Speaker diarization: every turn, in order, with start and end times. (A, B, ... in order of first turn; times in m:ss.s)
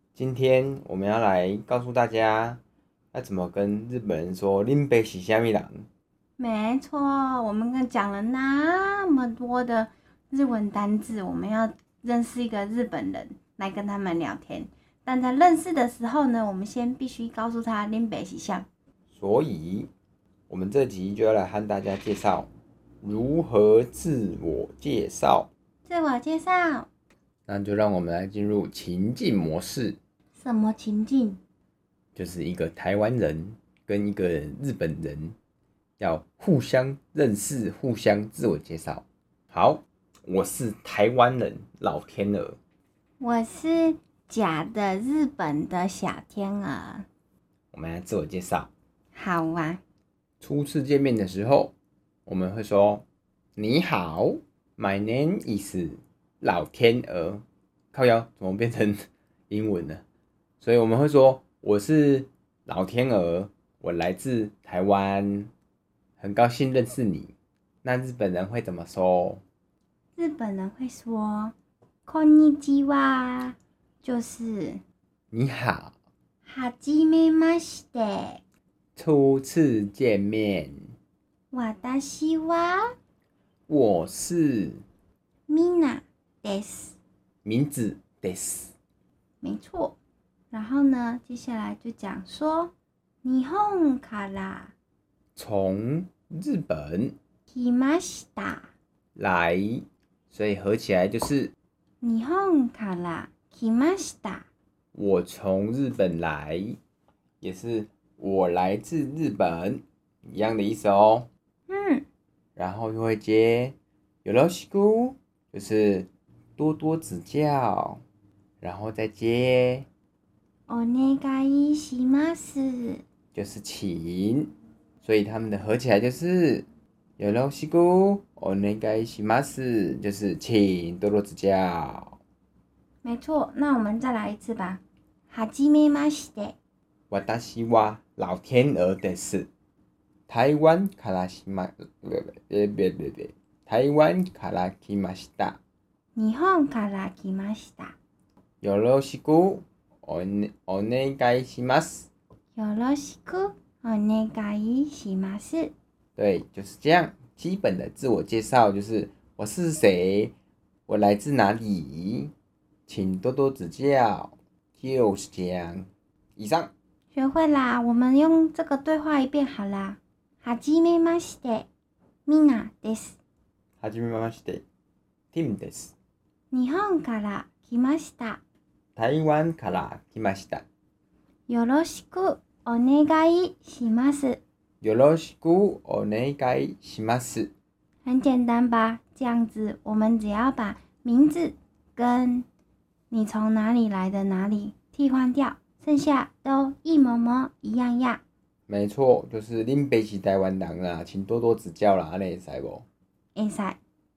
0:00.2-0:02.6 A
0:03.1-0:05.9 A
0:06.4-0:18.7 B
0:19.1-0:19.9 A
0:20.5-0:22.5 A
0:23.0-0:25.5 A
0:25.9-0:26.9 B
0:27.5-0:30.0 A
0:30.4-0:31.4 B
0:32.2-0:35.4 A
0:36.0-0:42.6 A
0:43.2-0:47.1 B
0:47.7-0:48.7 A
0:49.2-0:49.8 B
0:50.4-0:51.7 A
0:52.3-0:53.1 A
0:53.6-1:00.0 A
1:00.6-1:05.5 A
1:06.2-1:09.4 A
1:10.2-1:11.6 B
1:12.1-1:14.8 B
1:15.3-1:15.9 A
1:16.4-1:18.4 B
1:19.0-1:20.9 A
1:21.5-1:23.0 B
1:23.7-1:24.8 A
1:25.5-1:27.0 B
1:27.4-1:28.7 A
1:29.4-1:30.0 B
1:30.5-1:32.7 B
1:33.2-1:34.7 B
1:35.4-1:37.2 A
1:37.5-1:38.7 B
1:39.2-1:41.5 A
1:42.0-1:44.5 B
1:44.9-1:46.8 A
1:47.4-1:51.3 A
1:51.7-1:52.1 B
1:52.6-1:58.0 A
1:58.6-1:59.9 A
2:00.7-2:03.0 B
2:03.3-2:06.7 A
2:07.2-2:12.2 A
2:13.0-2:16.6 B
2:17.1-2:19.5 A
2:20.3-2:25.6 A
2:26.2-2:28.0 B
2:28.6-2:32.1 A
2:32.6-2:35.7 B
2:36.2-2:40.3 A
2:40.9-2:42.3 A
2:42.9-2:46.7 A
2:47.1-2:51.7 B
2:52.3-2:53.2 B
2:53.8-2:54.6 A
2:55.3-2:55.9 A
2:56.5-2:58.4 B
2:59.0-3:00.6 A
3:01.5-3:04.4 B
3:04.8-3:07.5 A
3:08.0-3:12.5 B
3:13.1-3:18.2 B
3:18.7-3:22.8 A
3:23.4-3:23.8 B